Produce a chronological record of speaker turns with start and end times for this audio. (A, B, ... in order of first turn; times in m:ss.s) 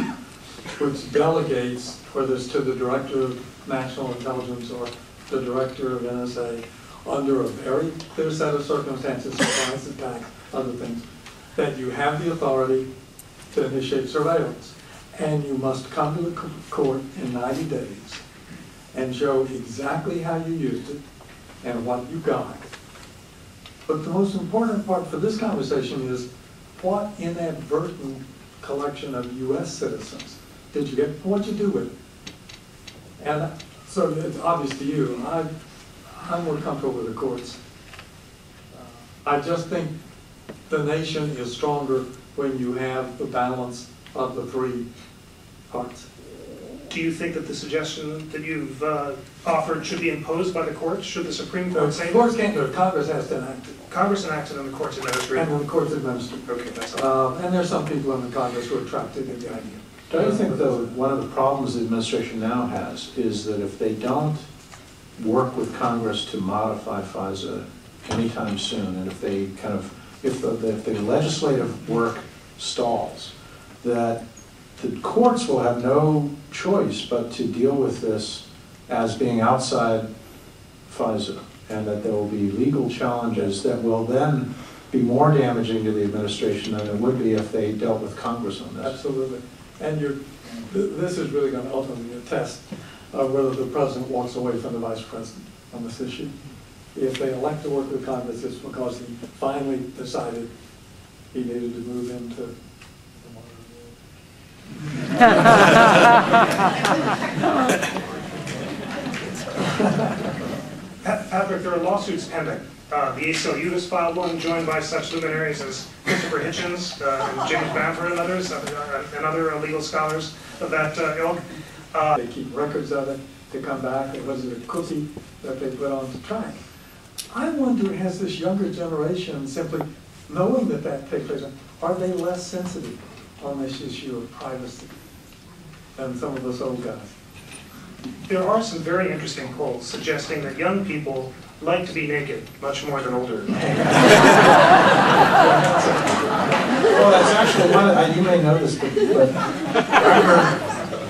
0:00.8-0:12.9 A
0:13.5-0:18.2 A
0:18.9-0:21.0 A
0:21.6-0:22.7 A
0:23.8-0:31.9 A
0:33.2-0:35.5 A
0:36.1-0:37.6 A
0:38.7-0:39.9 A
0:40.7-0:44.9 A
0:45.7-0:46.1 A
0:46.9-0:52.2 B
0:51.7-0:53.8 A
0:53.9-0:55.5 B
0:55.3-1:00.9 A
0:56.4-0:57.0 B
1:00.1-1:04.5 C
1:05.2-1:14.2 C
1:14.8-1:20.1 C
1:20.9-1:29.0 C
1:28.8-1:36.3 A
1:36.9-1:40.5 A
1:41.3-1:42.5 A
1:43.2-1:43.9 A
1:45.2-1:46.0 A
1:51.0-2:02.2 B
2:02.2-2:06.6 A
2:07.3-2:15.0 A
2:16.0-2:17.1 A
2:18.2-2:24.3 B
2:25.4-2:26.4 A
2:26.9-2:30.7 C